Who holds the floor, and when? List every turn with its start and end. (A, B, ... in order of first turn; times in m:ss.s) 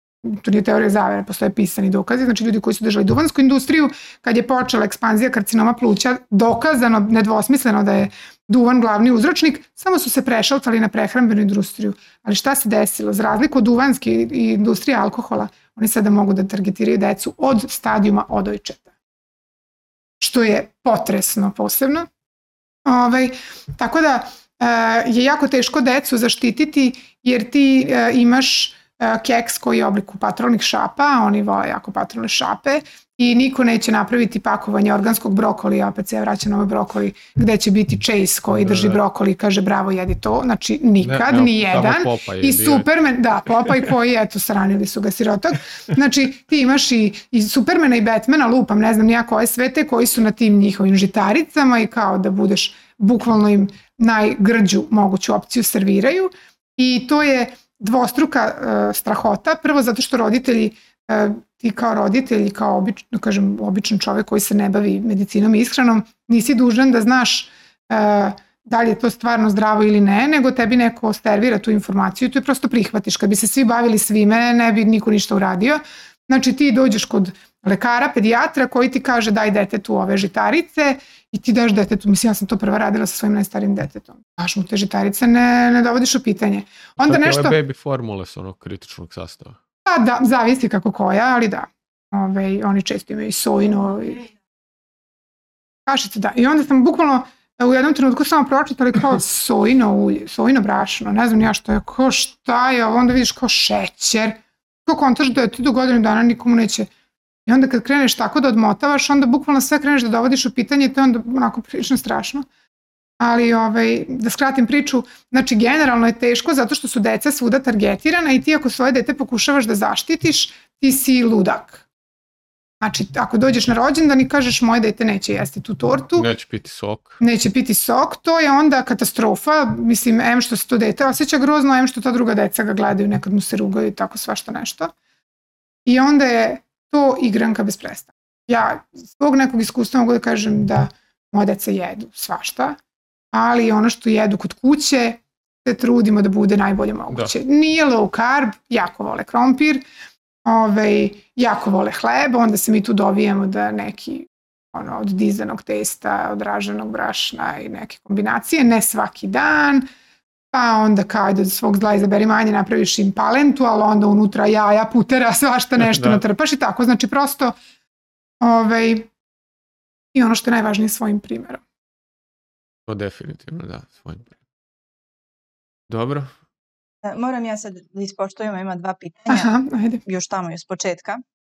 0:00.2-0:18.9 A
0:20.2-0:22.1 A
0:22.8-1:27.6 A
0:38.6-0:39.0 B
0:41.0-0:42.9 B
1:27.0-1:29.6 B
1:29.8-1:34.3 A
1:35.8-1:46.9 A
1:47.4-1:52.5 A
1:53.2-2:01.8 A
2:02.8-2:06.3 A
2:06.2-2:07.2 B
2:07.2-2:14.9 A
2:15.8-2:22.8 A
2:23.3-2:29.8 A
2:30.4-2:39.8 A
2:40.5-2:47.5 A
2:45.8-2:46.2 B
2:48.4-2:49.1 A
2:50.1-2:51.6 A
2:52.9-2:54.3 B
2:55.9-2:56.3 B
2:57.0-2:59.5 C
2:59.3-3:00.0 A
3:00.0-3:01.2 C